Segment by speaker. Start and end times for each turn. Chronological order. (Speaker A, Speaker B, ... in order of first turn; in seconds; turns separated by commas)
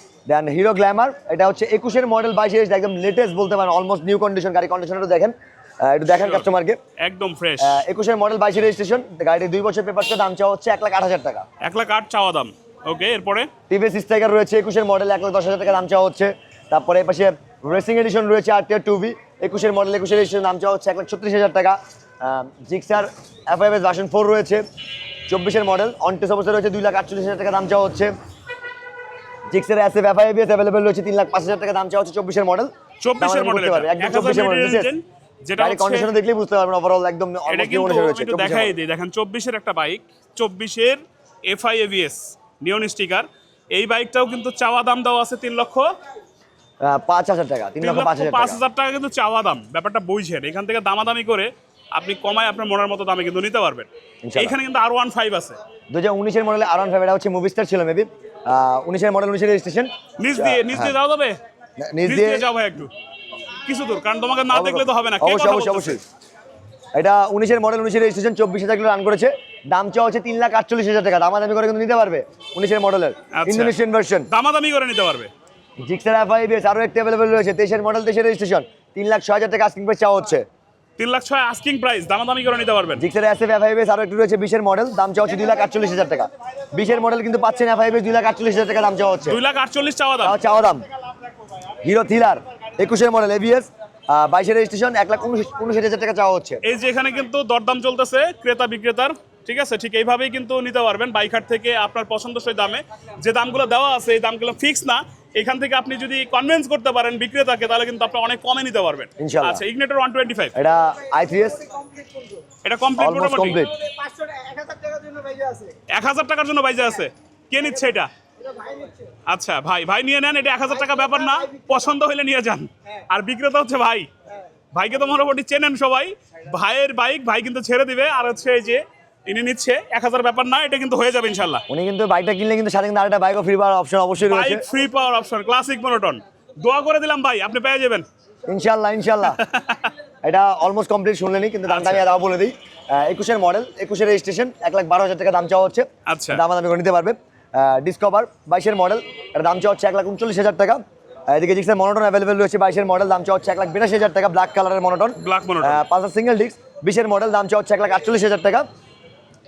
Speaker A: 0.3-6.8, Speaker B: 6.1-6.5, Speaker B: 7.0-7.8, Speaker A: 7.6-11.5, Speaker B: 11.6-13.5, Speaker A: 13.7-24.6, Speaker A: 25.3-28.1, Speaker A: 29.5-34.9, Speaker B: 33.0-36.1, Speaker A: 35.6-38.8, Speaker B: 37.5-45.9, Speaker A: 46.8-48.6, Speaker B: 47.8-55.6, Speaker A: 54.2-54.6, Speaker A: 55.9-61.0, Speaker B: 60.2-61.4, Speaker A: 61.8-62.5, Speaker B: 62.0-62.9, Speaker B: 63.7-66.0, Speaker A: 64.5-66.0, Speaker A: 67.0-74.3, Speaker B: 73.3-73.7, Speaker B: 74.3-75.3, Speaker A: 75.8-80.5, Speaker B: 81.0-83.0, Speaker A: 83.0-89.4, Speaker B: 89.3-90.4, Speaker A: 90.2-90.9, Speaker A: 91.8-96.6, Speaker B: 96.6-110.5, Speaker A: 109.2-109.6, Speaker A: 110.5-111.6, Speaker B: 112.6-113.6, Speaker A: 113.0-113.7, Speaker C: 113.8-115.7, Speaker B: 115.9-118.1, Speaker C: 118.5-118.9, Speaker B: 119.3-124.1, Speaker B: 124.7-131.6, Speaker A: 131.7-134.6, Speaker B: 134.2-138.1, Speaker A: 138.5-139.4, Speaker B: 139.2-139.9, Speaker A: 140.2-158.7, Speaker B: 141.7-142.0, Speaker B: 146.1-146.4, Speaker B: 155.2-155.8